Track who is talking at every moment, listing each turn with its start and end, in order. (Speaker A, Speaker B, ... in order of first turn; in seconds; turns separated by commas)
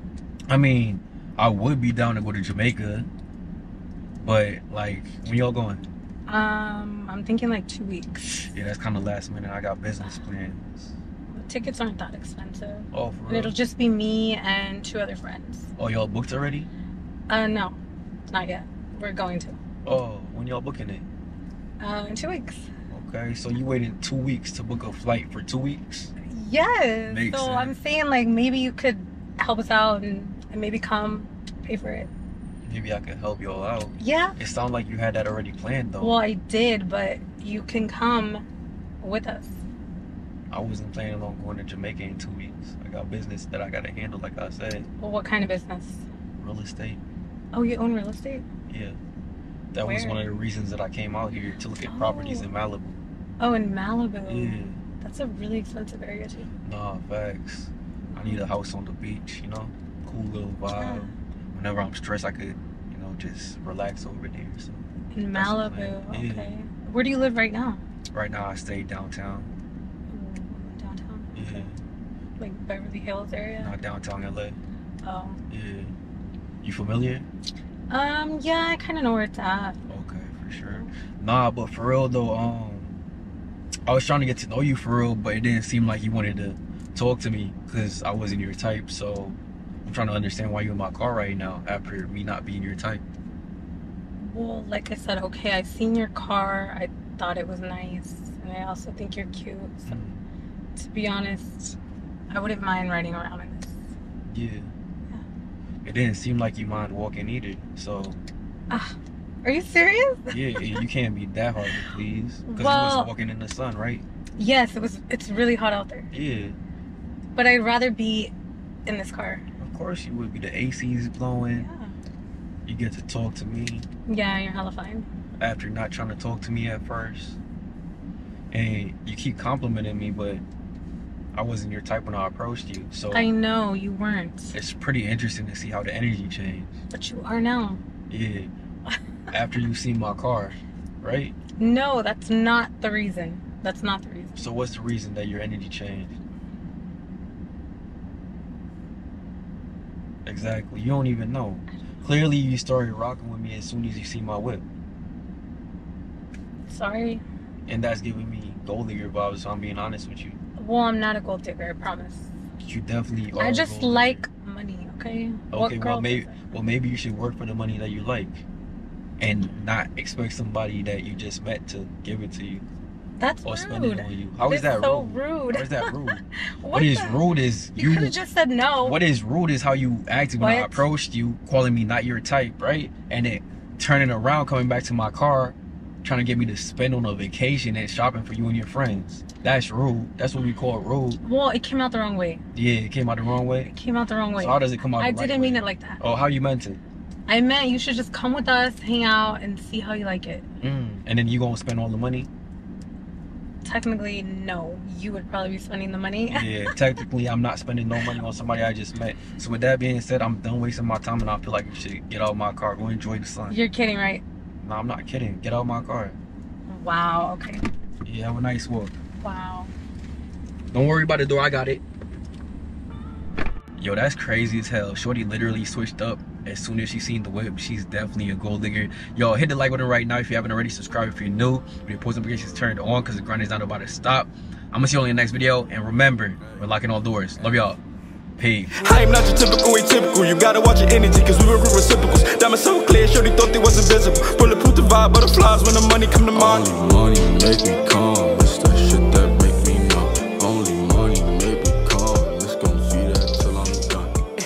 Speaker A: 0.5-3.1, Speaker A: 4.2-5.9, Speaker B: 6.3-8.5, Speaker A: 8.5-10.9, Speaker B: 11.3-15.7, Speaker A: 12.9-13.6, Speaker A: 15.8-16.7, Speaker B: 17.3-17.8, Speaker B: 18.3-19.6, Speaker A: 19.8-21.1, Speaker B: 21.8-22.7, Speaker A: 22.9-26.1, Speaker B: 26.3-32.1, Speaker A: 27.1-27.7, Speaker A: 32.6-36.2, Speaker B: 34.0-34.4, Speaker B: 36.0-38.4, Speaker B: 39.0-39.6, Speaker A: 40.5-44.9, Speaker B: 45.0-46.1, Speaker A: 46.4-47.0, Speaker B: 47.5-48.5, Speaker A: 48.7-49.0, Speaker A: 49.7-53.0, Speaker B: 49.8-50.2, Speaker B: 51.9-52.5, Speaker B: 53.4-56.5, Speaker A: 54.3-54.8, Speaker A: 56.6-66.5, Speaker B: 58.1-58.5, Speaker B: 60.7-61.1, Speaker B: 65.1-67.8, Speaker A: 68.1-69.5, Speaker B: 70.1-71.7, Speaker A: 71.3-71.8, Speaker B: 72.4-73.8, Speaker A: 73.6-74.6, Speaker B: 75.0-75.4, Speaker A: 75.5-75.9, Speaker A: 76.6-77.3, Speaker B: 77.9-79.8, Speaker A: 79.9-83.0, Speaker A: 83.9-93.0, Speaker B: 94.2-100.0, Speaker A: 99.9-100.2, Speaker B: 100.8-101.8, Speaker B: 102.3-103.9, Speaker A: 104.3-104.7, Speaker A: 105.8-108.2, Speaker B: 108.7-110.8, Speaker A: 110.3-114.0, Speaker B: 111.7-113.1, Speaker B: 114.4-116.1, Speaker A: 116.1-116.6, Speaker B: 117.4-118.3, Speaker B: 118.9-119.4, Speaker A: 119.6-121.7, Speaker B: 121.5-122.0, Speaker A: 122.7-123.9, Speaker B: 124.1-125.1, Speaker A: 125.4-127.4, Speaker A: 128.5-130.4, Speaker A: 131.3-133.3, Speaker B: 133.1-134.6, Speaker A: 134.5-136.8, Speaker B: 136.9-137.8, Speaker A: 138.1-138.5, Speaker A: 139.3-141.4, Speaker B: 141.6-144.5, Speaker A: 144.4-146.2, Speaker A: 150.3-154.7, Speaker B: 156.7-157.2, Speaker A: 157.7-160.4, Speaker B: 160.6-162.3, Speaker A: 162.6-164.2, Speaker B: 163.4-166.3, Speaker A: 165.5-168.4, Speaker A: 169.2-172.7, Speaker B: 173.2-177.2, Speaker A: 173.4-178.2, Speaker B: 177.8-179.0, Speaker A: 178.8-191.2, Speaker B: 180.4-180.8, Speaker B: 191.2-192.4, Speaker A: 192.5-193.7, Speaker B: 193.7-196.0, Speaker A: 194.4-196.8, Speaker B: 197.3-200.5, Speaker A: 200.6-202.3, Speaker B: 203.6-206.8, Speaker A: 206.3-213.6, Speaker B: 213.5-214.2, Speaker A: 214.6-216.2, Speaker B: 216.7-217.7, Speaker A: 218.1-219.0, Speaker B: 219.2-219.7, Speaker A: 220.7-221.8, Speaker A: 223.8-237.8, Speaker A: 238.4-239.0, Speaker C: 238.8-246.7, Speaker A: 246.2-254.2